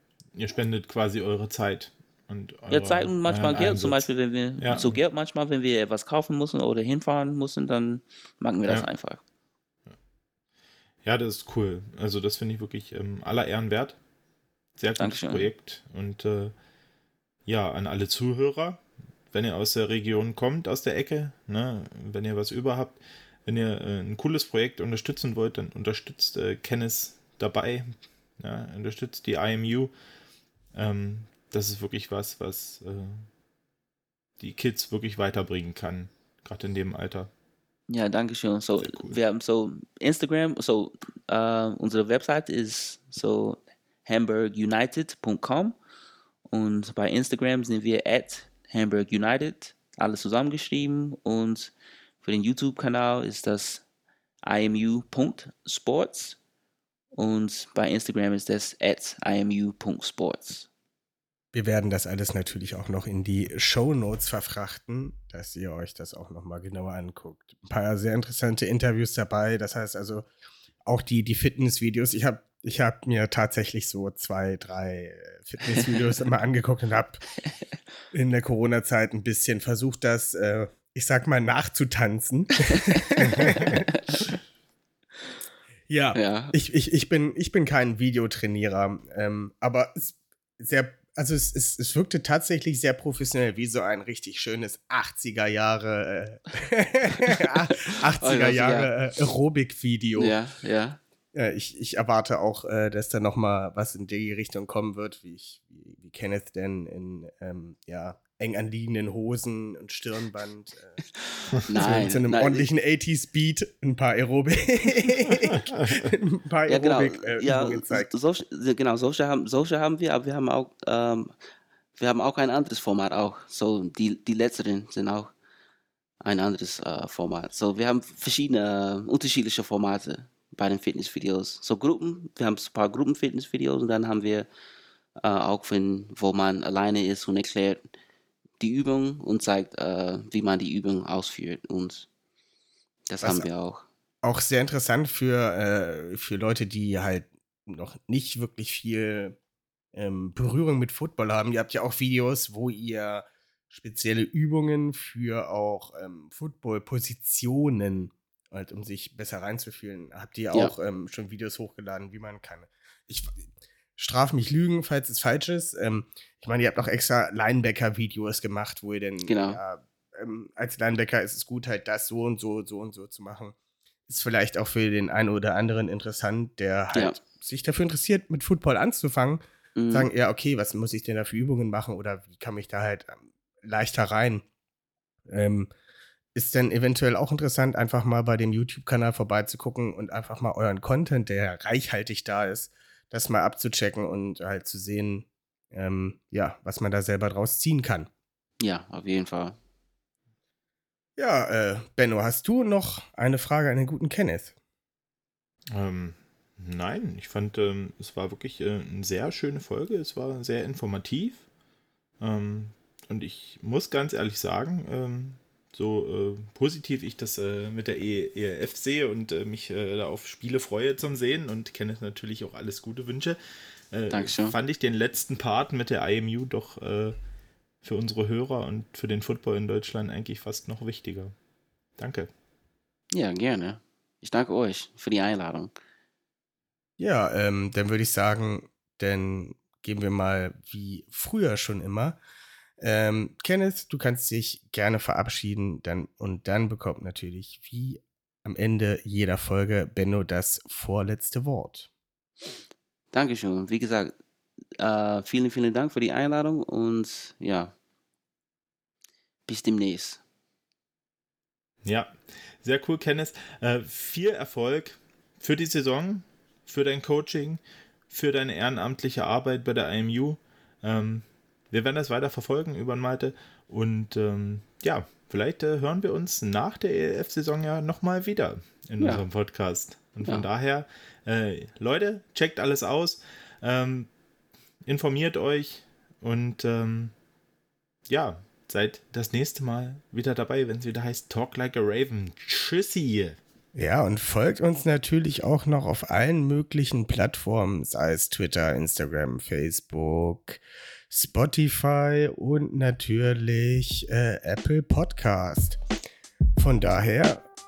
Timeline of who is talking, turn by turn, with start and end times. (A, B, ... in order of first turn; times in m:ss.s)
0:00.3-0:05.0 A
0:02.7-0:09.2 B
0:11.0-0:14.0 A
0:14.8-0:16.5 A
0:15.0-0:15.5 B
0:17.5-0:29.9 A
0:30.7-0:33.3 A
0:34.4-0:37.3 A
0:37.9-0:45.8 B
0:38.8-0:39.2 A
0:46.5-0:51.7 B
0:52.2-0:53.8 B
0:54.4-0:56.4 B
0:57.1-1:00.7 B
1:01.5-1:10.3 C
1:10.8-1:17.2 C
1:18.1-1:23.9 C
1:23.4-1:24.2 B
1:25.9-1:40.4 C
1:26.1-1:26.6 B
1:37.7-1:38.9 B
1:40.2-1:41.0 B
1:41.3-1:51.0 C
1:51.5-1:52.7 B
1:51.7-1:58.1 C
1:56.7-2:01.3 B
2:02.0-2:05.3 B
2:06.2-2:14.5 B
2:15.2-2:17.8 B
2:18.6-2:22.1 B
2:23.1-2:23.9 B
2:23.2-2:23.5 C
2:24.2-2:29.4 C
2:29.9-2:53.6 C
2:49.2-2:49.6 B
2:54.1-3:04.4 C
2:56.9-2:57.2 B
2:59.8-3:00.1 B
3:05.3-3:05.7 C
3:06.4-3:18.1 C
3:18.6-3:19.6 B
3:21.2-3:24.5 C
3:25.7-3:31.4 A
3:32.2-3:43.4 A
3:43.9-3:47.2 A
3:44.1-3:44.6 B
3:47.8-3:51.3 A
3:52.0-3:52.3 A
3:53.1-3:55.7 B
3:57.0-4:02.2 C
4:02.8-4:11.9 C
4:13.1-4:14.1 B
4:14.8-4:17.7 B
4:19.5-4:20.2 B
4:21.8-4:44.1 A
4:44.9-4:47.1 A
4:48.1-4:53.4 A
4:53.8-5:05.8 C
5:06.6-5:07.5 C